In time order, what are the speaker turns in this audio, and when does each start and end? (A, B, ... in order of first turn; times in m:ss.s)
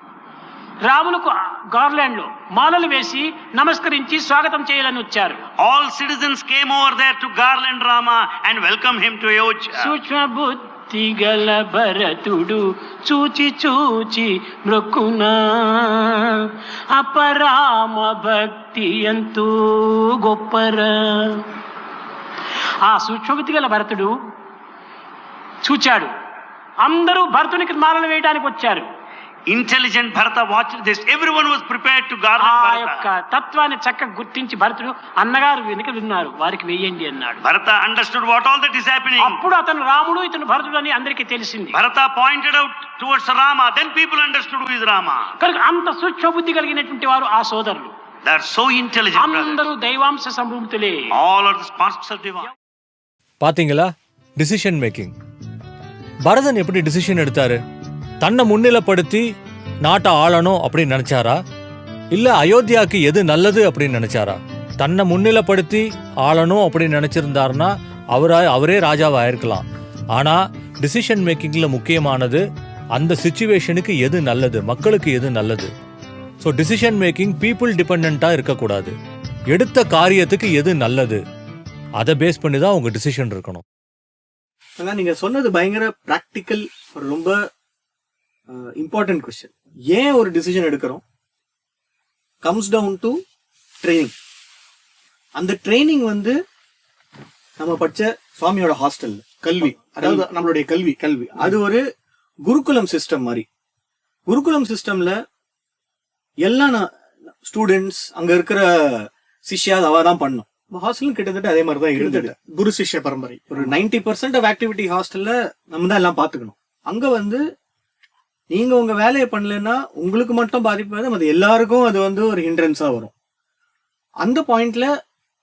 0:00.8-0:05.4 A
0:05.6-0:09.9 B
0:09.8-0:21.5 A
0:22.8-0:24.1 A
0:25.6-0:26.1 A
0:26.8-0:28.9 A
0:29.5-0:33.1 B
0:32.4-0:37.4 A
0:37.4-0:39.4 B
0:39.2-0:41.8 A
0:41.7-0:45.4 B
0:45.4-0:47.9 A
0:48.2-0:49.6 B
0:49.2-0:51.1 A
0:51.1-0:52.5 B
0:53.4-0:55.1 C
0:56.3-0:57.6 C
0:58.2-0:59.3 C
0:59.8-1:01.4 C
1:02.1-1:09.6 C
1:10.2-1:12.4 C
1:13.0-1:15.7 C
1:16.4-1:19.0 C
1:19.5-1:21.2 C
1:22.0-1:23.6 C
1:24.8-1:27.4 D
1:28.5-1:31.0 D
1:32.4-1:33.2 D
1:33.8-1:34.1 D
1:35.4-1:36.4 D
1:37.6-1:40.2 D
1:39.4-1:41.6 E
1:41.4-1:41.8 D
1:42.4-1:43.5 D
1:44.3-1:45.2 D
1:46.4-1:46.9 D
1:47.5-1:52.3 D
1:52.0-1:53.7 E
1:53.5-1:57.4 D
1:58.5-2:03.1 D
2:04.2-2:04.9 D